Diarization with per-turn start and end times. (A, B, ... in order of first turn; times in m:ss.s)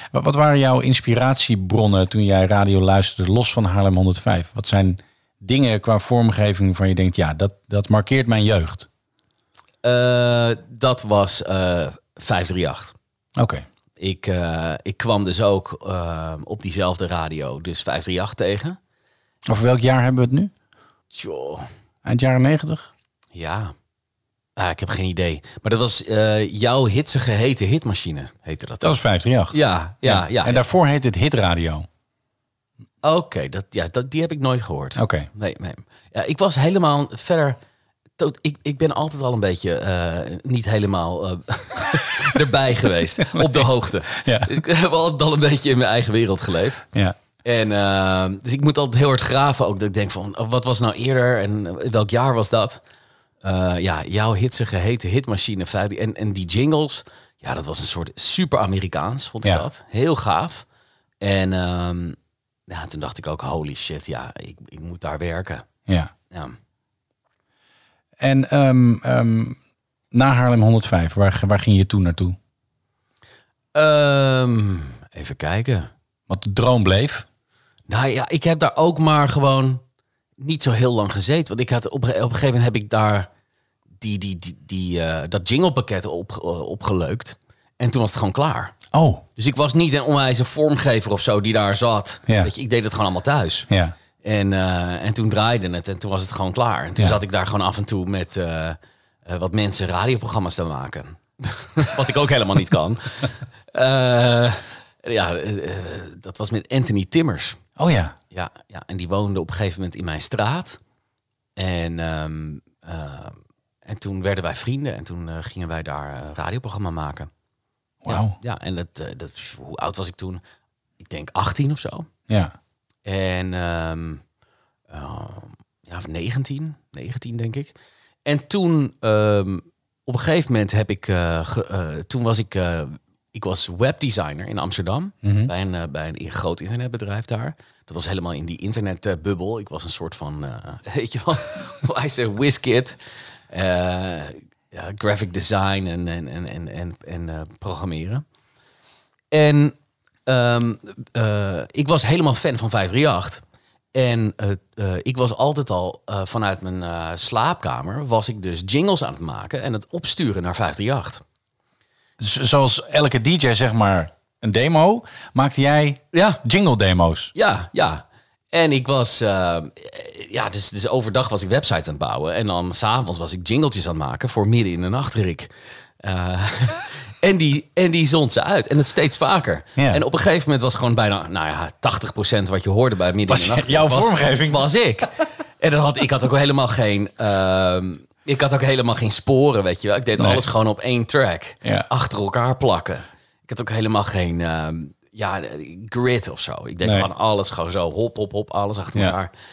0:00.1-0:08.9 A
0:09.8-0:13.0 B
0:13.4-0:13.6 A
0:14.0-0:18.8 B
0:19.5-0:20.5 A
0:21.1-0:21.7 B
0:22.0-0:22.9 A
0:23.3-0:23.7 B
0:24.6-0:28.9 B
0:28.8-0:31.9 A
0:29.5-0:30.6 B
0:33.0-0:37.6 B
0:35.0-0:35.3 A
0:38.2-0:46.9 B
0:43.2-0:44.5 A
0:47.4-0:52.8 B
0:53.4-1:00.6 B
1:01.2-1:05.6 B
1:05.9-1:06.1 A
1:06.3-1:06.6 B
1:08.2-1:09.6 A
1:10.1-1:12.4 A
1:13.7-1:15.9 B
1:16.3-1:17.2 A
1:17.9-1:19.8 B
1:20.4-1:23.3 B
1:24.0-1:28.8 B
1:28.9-1:29.2 A
1:29.4-1:33.7 B
1:33.7-1:33.9 A
1:34.2-1:47.6 B
1:47.8-1:48.2 A
1:48.3-1:50.8 B
1:51.6-1:57.3 B
1:58.0-1:58.4 A
1:58.0-2:00.4 B
2:01.0-2:02.1 B
2:03.0-2:04.2 B
2:04.9-2:28.2 B
2:15.2-2:15.5 A
2:29.3-2:33.4 B
2:33.9-2:41.2 B
2:42.2-2:47.3 A
2:46.1-2:46.4 B
2:47.3-3:19.3 B
2:59.8-3:00.0 A
3:03.3-3:04.6 A
3:10.2-3:10.4 A
3:11.6-3:11.9 A
3:16.8-3:17.1 A